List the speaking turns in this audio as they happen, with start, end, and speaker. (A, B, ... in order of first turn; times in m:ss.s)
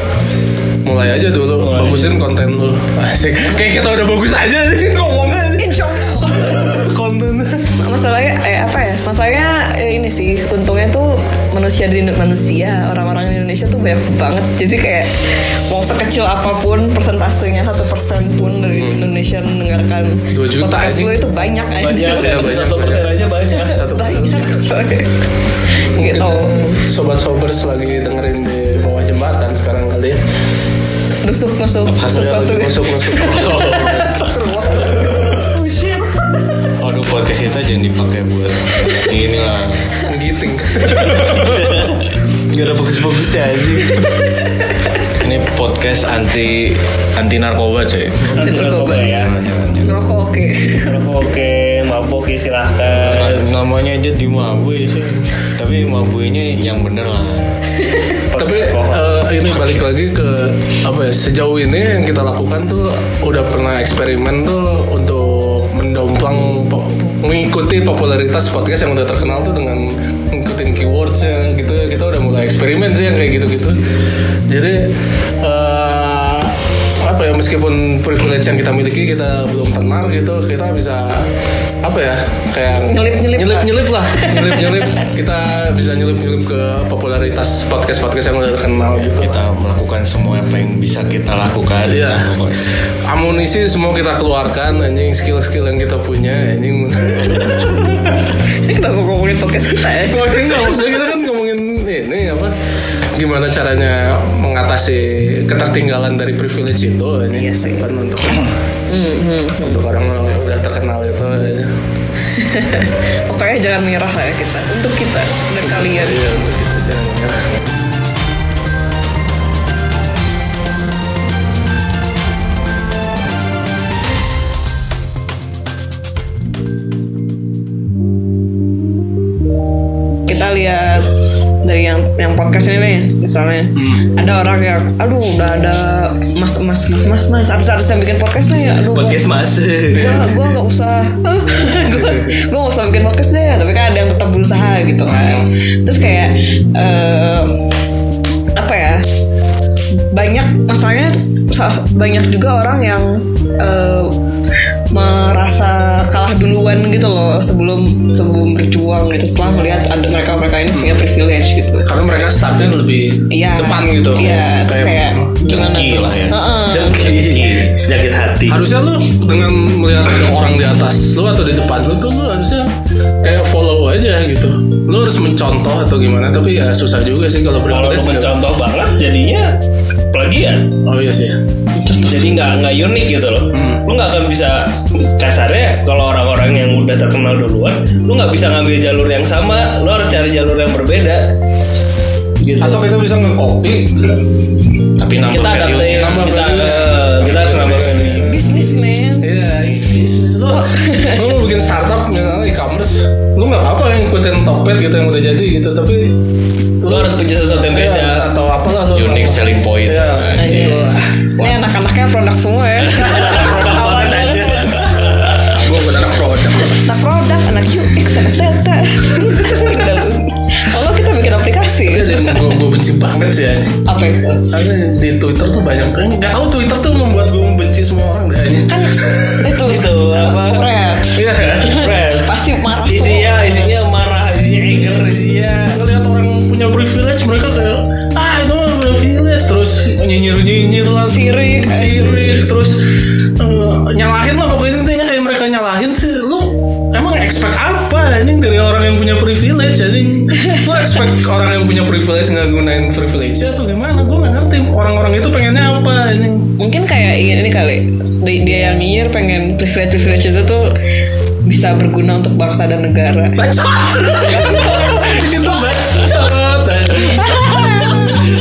0:00.8-0:07.7 A
0:01.6-0:02.2 B
0:05.6-0:06.8 C
0:07.8-0:22.5 C
0:18.7-0:19.1 A
0:20.3-0:21.2 A
0:21.8-0:23.9 B
0:22.0-0:24.6 A
0:23.9-0:25.2 C
0:25.8-0:26.5 C
0:26.0-0:30.2 A
0:31.2-0:35.3 C
0:31.9-0:32.4 D
0:32.0-0:35.1 A
0:33.1-0:34.2 D
0:35.5-0:36.1 B
0:36.8-0:40.0 D
0:40.0-0:41.9 A
0:41.5-0:41.9 B
0:42.5-0:44.1 B
0:44.0-0:44.6 C
0:45.2-0:50.0 D
0:48.3-0:49.3 B
0:48.3-0:49.2 C
0:49.8-0:51.1 C
0:50.8-0:53.4 B
0:52.8-0:57.5 D
0:57.9-0:58.2 C
0:58.3-0:59.2 B
0:58.4-1:13.8 A
0:59.6-0:59.8 D
1:14.5-1:21.2 A
1:21.8-1:29.4 A
1:22.7-1:24.9 C
1:29.2-1:32.6 D
1:31.8-1:32.3 A
1:33.1-1:38.0 A
1:37.5-1:38.0 C
1:38.5-1:40.8 C
1:40.0-1:42.5 A
1:43.1-1:48.5 A
1:47.3-1:47.9 C
1:48.9-1:49.8 C
1:49.6-1:51.7 A
1:52.3-1:56.2 C
1:55.6-1:57.6 A
2:10.2-2:11.1 C
2:11.6-2:19.2 C
2:13.8-2:14.0 A
2:18.9-2:20.4 B
2:19.9-2:27.6 C
2:25.0-2:25.5 A
2:28.6-2:29.0 C
2:29.9-2:34.2 C
2:34.9-2:42.3 C
2:40.7-2:41.0 A
2:41.8-2:45.3 A
2:43.3-2:47.2 C
2:45.4-2:47.8 D
2:46.7-2:48.6 B
2:48.5-2:52.7 A
2:53.2-2:58.4 A
2:57.7-2:59.6 B
3:00.1-3:00.7 B
3:00.8-3:01.4 A
3:01.8-3:02.4 C
3:01.9-3:11.3 B
3:03.5-3:03.8 A
3:12.4-3:12.9 B
3:12.6-3:14.3 A
3:15.0-3:16.3 D
3:15.3-3:18.3 B
3:16.0-3:26.1 A
3:18.2-3:19.5 C
3:20.5-3:21.2 C
3:26.8-3:31.6 A
3:26.9-3:28.2 B
3:28.9-3:30.8 D
3:30.4-3:35.2 C
3:32.9-3:35.4 B
3:35.4-3:36.8 A
3:36.7-3:42.5 C
3:41.9-3:43.8 A
3:43.8-3:44.4 C
3:44.5-3:49.6 A
3:48.7-3:53.7 C
3:49.6-3:50.7 B
3:51.1-3:51.9 A
3:51.7-3:55.8 B
3:55.6-4:02.8 A
4:01.1-4:02.4 C
4:03.4-4:16.5 A
4:16.6-4:20.7 C
4:21.4-4:23.4 C
4:23.4-4:28.0 A
4:24.2-4:25.2 C
4:27.2-4:28.1 C